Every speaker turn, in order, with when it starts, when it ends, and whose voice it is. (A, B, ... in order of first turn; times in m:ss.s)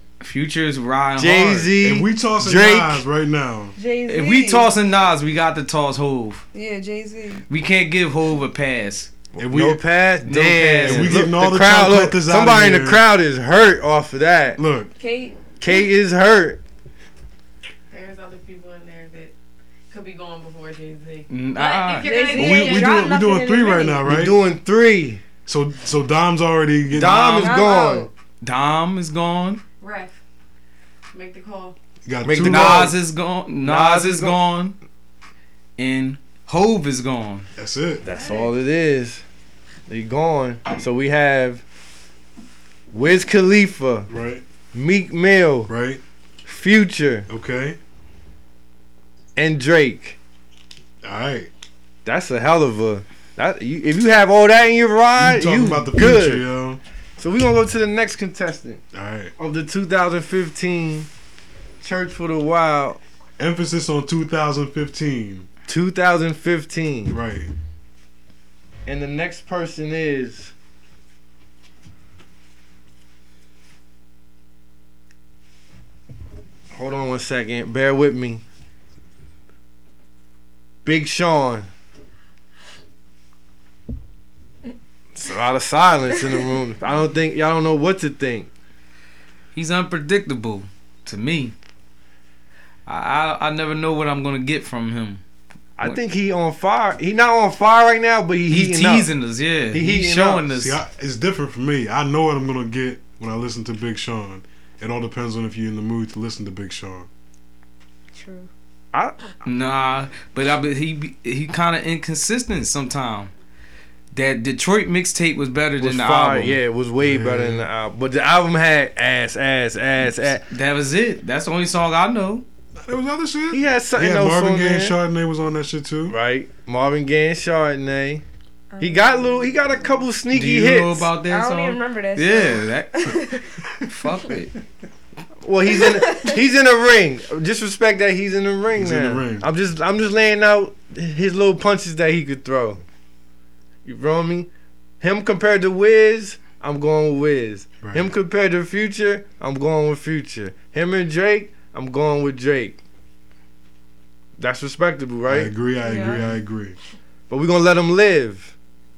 0:00.2-0:01.7 A
0:01.2-0:03.0 B
0:01.8-0:03.7 C
0:03.8-0:04.7 D
0:04.1-0:06.4 A
0:06.5-0:07.4 D
0:07.5-0:09.1 A
0:09.4-0:14.6 B
0:09.4-0:09.8 C
0:10.2-0:11.2 A
0:10.8-0:13.0 C
0:14.6-0:14.9 C
0:15.0-0:15.9 D
0:15.6-0:16.6 B
0:17.9-0:19.3 E
0:19.9-0:23.1 E
0:21.3-0:22.3 A
0:22.0-0:24.0 D
0:22.4-0:24.4 C
0:24.0-0:25.2 B
0:25.5-0:27.6 C
0:26.9-0:28.1 B
0:27.4-0:28.1 D
0:28.4-0:29.6 A
0:29.8-0:30.2 E
0:31.1-0:31.8 E
0:32.0-0:32.9 C
0:32.2-0:33.0 B
0:32.4-0:34.8 A
0:33.6-0:34.4 B
0:35.8-0:37.5 A
0:37.6-0:38.0 C
0:38.0-0:39.2 B
0:38.1-0:38.5 E
0:39.9-0:41.6 B
0:42.9-0:44.1 B
0:44.1-0:44.4 C
0:44.7-0:45.7 B
0:45.7-0:46.0 C
0:46.4-0:47.3 B
0:47.3-0:47.8 C
0:49.4-0:50.2 B
0:51.0-0:51.5 C
0:52.1-0:56.4 B
0:55.2-0:56.8 C
0:57.2-0:58.8 B
0:58.9-0:59.3 C
0:59.4-1:01.1 B
1:01.8-1:03.0 B
1:03.4-1:05.5 C
1:05.7-1:07.2 B
1:07.1-1:07.5 C
1:08.9-1:10.5 B
1:16.7-1:18.4 B
1:20.8-1:21.7 B
1:25.2-1:28.5 B
1:29.6-1:31.5 A
1:32.9-1:35.2 A
1:35.8-1:39.1 B
1:38.5-1:40.8 A
1:39.7-1:40.4 B
1:40.5-1:47.1 C
1:48.2-1:48.5 D
1:48.9-1:49.2 B
1:49.4-1:53.3 A
1:54.1-1:56.6 A
1:55.8-2:00.4 B
1:57.0-1:57.7 C
2:00.5-2:02.4 A
2:02.8-2:06.2 C
2:03.5-2:05.0 B
2:06.1-2:08.2 B
2:08.7-2:09.9 D
2:08.8-2:11.1 B
2:10.3-2:13.2 A
2:11.2-2:13.6 D
2:13.9-2:14.5 A
2:15.4-2:22.8 B
2:15.8-2:16.4 D
2:18.7-2:19.5 C
2:23.8-2:24.5 B
2:25.0-2:32.8 B
2:27.8-2:28.1 C
2:34.4-2:35.5 B
2:35.3-2:36.8 C
2:35.8-2:36.3 D
2:37.3-2:38.6 B